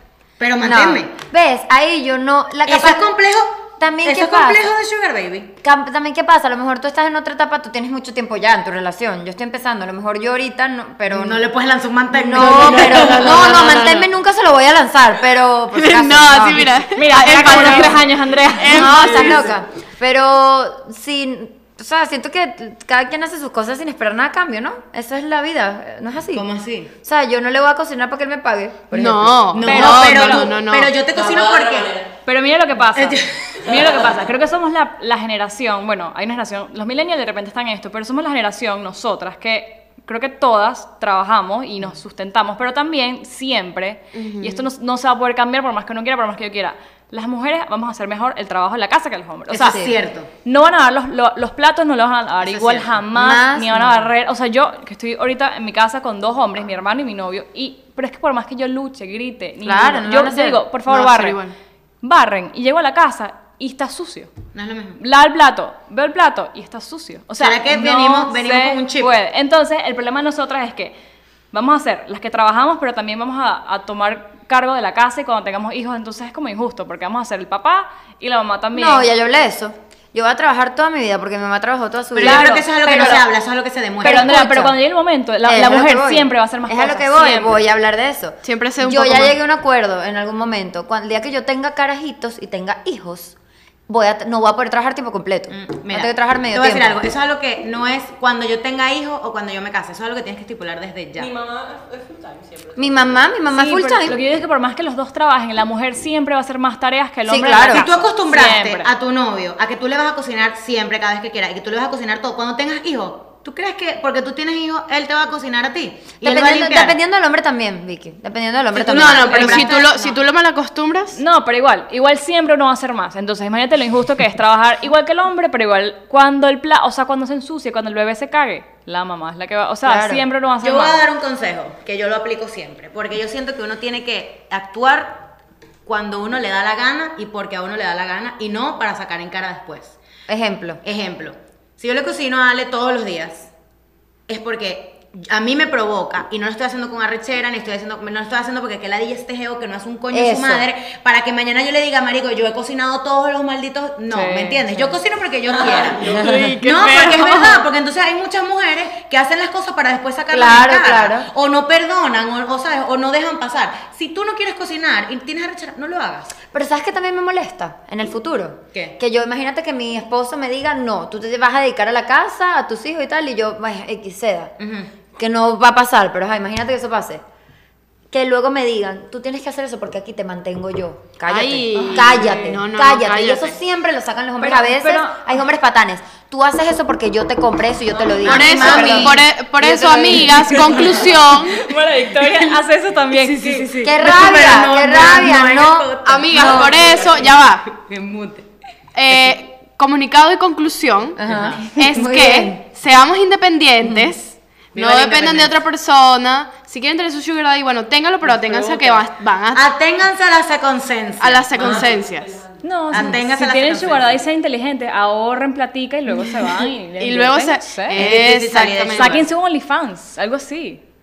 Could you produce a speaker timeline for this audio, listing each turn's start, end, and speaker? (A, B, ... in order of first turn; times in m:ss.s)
0:00.4-0:01.1 A
0:00.6-0:03.1 B
0:02.7-0:05.5 A
0:03.8-0:04.6 B
0:05.6-0:11.4 B
0:11.1-0:14.0 A
0:12.1-0:18.0 B
0:12.3-0:14.1 C
0:15.7-0:19.6 C
0:17.0-0:19.0 D
0:18.7-0:26.4 B
0:26.3-0:26.9 A
0:27.0-0:29.7 B
0:28.9-0:30.9 C
0:29.5-0:32.0 A
0:29.6-0:30.6 D
0:31.1-0:32.2 E
0:32.3-0:49.8 D
0:32.9-0:33.4 A
0:33.6-0:33.9 E
0:44.2-0:44.7 C
0:49.5-0:50.3 A
0:49.6-0:49.9 B
0:50.4-1:01.4 D
0:52.4-0:52.9 A
0:53.1-0:54.1 B
0:59.6-1:00.6 B
1:00.9-1:01.5 C
1:02.0-1:04.3 D
1:04.5-1:05.0 A
1:05.0-1:10.9 D
1:07.4-1:09.1 A
1:11.5-1:19.1 D
1:18.7-1:23.2 B
1:22.2-1:24.3 A
1:22.2-1:23.2 D
1:24.0-1:24.8 B
1:24.0-1:27.6 D
1:25.4-1:33.4 B
1:28.4-1:29.4 C
1:33.9-1:37.0 B
1:35.5-1:41.3 A
1:41.2-1:43.3 E
1:42.8-1:44.2 B
1:43.5-1:48.9 D
1:47.3-1:47.8 B
1:47.6-1:57.0 A
1:56.2-2:00.1 B
1:58.7-2:00.1 A
1:58.8-2:01.2 C
2:01.2-2:11.0 D
2:09.8-2:10.2 B
2:10.6-2:15.3 A
2:15.9-2:20.0 A
2:20.3-2:20.8 B
2:20.8-2:23.5 A
2:24.3-2:46.3 A
2:30.1-2:30.7 B
2:34.1-2:35.0 D
2:35.5-2:36.5 E
2:36.0-2:37.7 C
2:40.3-2:41.3 B
2:46.5-2:54.5 B
2:54.6-2:54.9 A
2:55.2-2:57.2 B
2:58.1-3:11.0 B
3:01.3-3:03.6 C
3:01.7-3:02.6 D
3:04.4-3:05.2 D
3:08.0-3:08.3 E
3:08.2-3:09.2 A
3:08.2-3:11.7 C
3:10.4-3:14.2 D
3:10.8-3:11.1 E
3:13.2-3:18.4 A
3:13.8-3:16.6 B
3:16.1-3:17.6 C
3:16.3-3:17.1 E
3:18.9-3:21.2 C
3:21.2-3:22.6 B
3:21.2-3:21.6 A
3:21.7-3:29.7 C
3:23.8-3:24.1 B
3:24.7-3:25.6 A
3:28.2-3:31.9 A
3:31.2-3:32.4 C
3:31.6-3:33.2 E
3:32.6-3:38.1 D
3:32.9-3:34.2 A
3:37.0-3:39.2 C
3:37.9-3:39.3 A
3:38.9-3:40.8 D